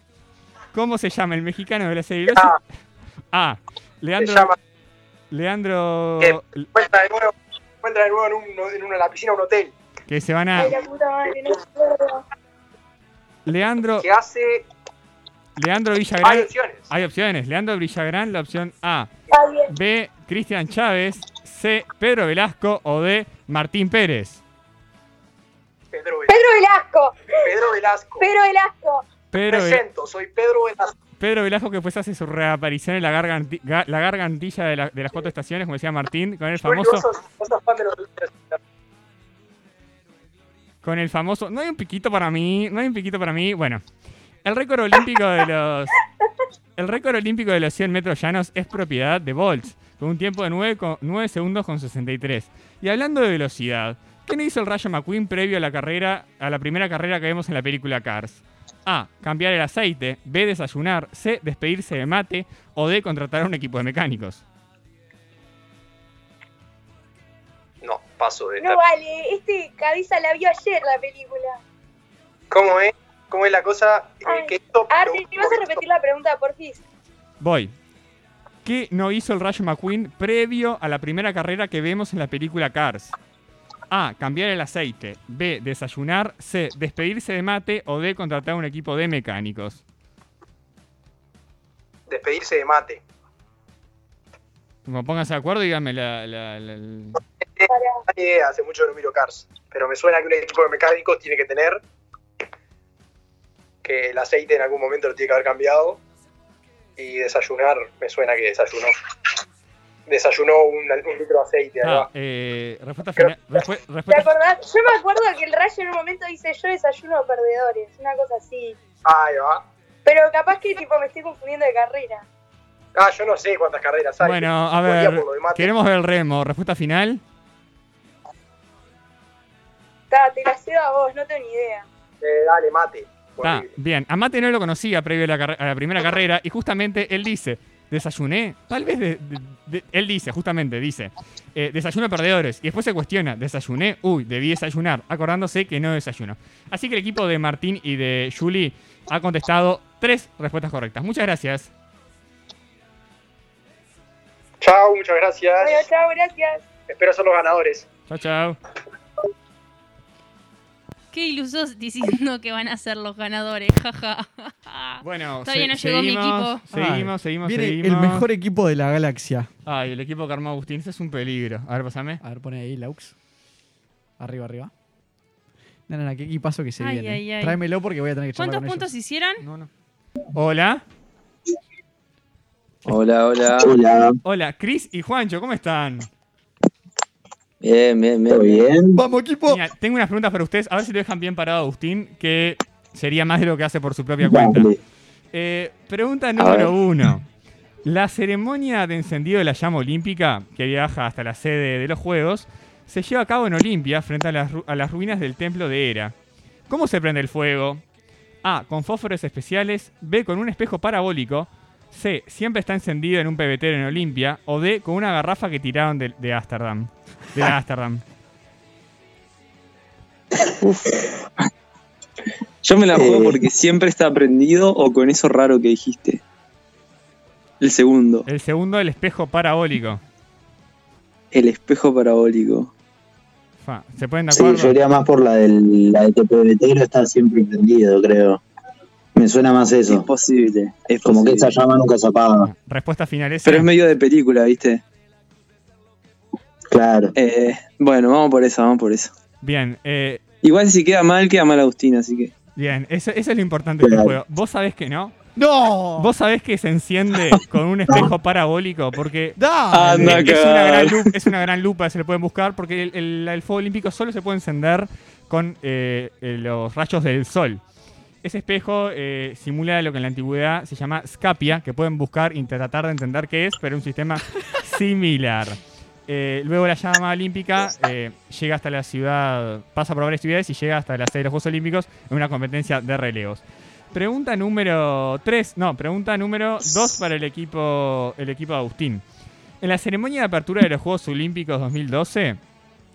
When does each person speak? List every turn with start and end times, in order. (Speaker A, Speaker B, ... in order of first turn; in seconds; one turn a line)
Speaker A: 0.7-2.6
Speaker A: 3.3-4.5
Speaker B: 4.2-4.5
Speaker A: 5.3-6.7
Speaker B: 6.2-9.7
Speaker A: 10.1-10.8
Speaker C: 10.6-12.2
Speaker A: 13.5-14.1
Speaker B: 14.0-14.6
Speaker A: 15.6-19.1
Speaker B: 16.2-16.9
Speaker C: 19.3-19.7
Speaker A: 19.7-24.4
Speaker B: 25.9-26.4
Speaker C: 26.3-27.5
Speaker B: 27.4-28.3
Speaker C: 28.2-29.1
Speaker A: 29.3-29.8
Speaker B: 29.4-30.9
Speaker A: 31.2-37.1
Speaker B: 36.6-38.6
Speaker A: 40.8-43.8
Speaker A: 44.5-46.0
Speaker A: 46.8-64.4
Speaker B: 67.8-68.8
Speaker C: 68.6-71.6
Speaker B: 72.5-75.8
Speaker C: 74.2-76.8
Speaker A: 77.4-77.7
Speaker A: 78.7-83.2
Speaker A: 83.9-89.8
Speaker B: 92.1-93.0
Speaker A: 94.9-97.2
Speaker B: 97.6-101.8
Speaker C: 97.7-98.0
Speaker B: 103.8-106.0
Speaker B: 107.0-108.9
Speaker B: 110.1-112.1
Speaker A: 111.8-114.3
Speaker B: 113.2-113.6
Speaker C: 114.1-118.8
Speaker B: 119.0-119.6
Speaker C: 120.0-122.2
Speaker B: 123.0-125.7
Speaker A: 124.2-127.2
Speaker C: 130.1-131.9
Speaker B: 132.2-133.7
Speaker A: 133.4-151.7
Speaker B: 154.6-155.8
Speaker C: 155.6-156.6
Speaker B: 156.9-157.9
Speaker A: 158.1-158.6
Speaker D: 161.1-166.6
Speaker A: 165.0-168.3
Speaker E: 166.7-169.5
Speaker A: 169.7-172.2
Speaker E: 172.2-173.1
Speaker E: 174.2-174.7
Speaker E: 175.9-178.9
Speaker D: 176.8-177.6
Speaker D: 178.4-179.4
Speaker A: 179.4-179.7
Speaker A: 180.3-180.8
Speaker F: 182.8-183.8
Speaker G: 183.6-184.2
Speaker A: 184.2-186.1
Speaker F: 187.6-188.7
Speaker G: 188.3-189.0
Speaker E: 188.9-189.6
Speaker A: 189.5-194.7
Speaker G: 194.2-194.8
Speaker A: 195.3-197.3
Speaker F: 196.4-196.8
Speaker A: 197.8-206.2
Speaker A: 206.7-207.8
Speaker A: 208.4-218.0
Speaker F: 222.6-226.2
Speaker G: 222.9-223.4
Speaker F: 227.6-228.3
Speaker A: 228.3-230.0
Speaker F: 231.3-232.7
Speaker A: 233.6-234.8
Speaker G: 234.3-238.4
Speaker G: 239.2-240.1
Speaker F: 239.9-241.6
Speaker G: 241.0-242.5
Speaker A: 242.4-243.7
Speaker F: 243.4-244.8
Speaker G: 246.7-247.1
Speaker F: 247.2-249.1
Speaker A: 249.4-250.2
Speaker F: 250.4-252.3
Speaker A: 252.6-255.1
Speaker G: 253.8-254.2
Speaker E: 255.4-256.1
Speaker A: 256.0-267.6
Speaker E: 259.4-260.3
Speaker F: 259.7-261.3
Speaker A: 268.2-289.0
Speaker A: 289.6-292.4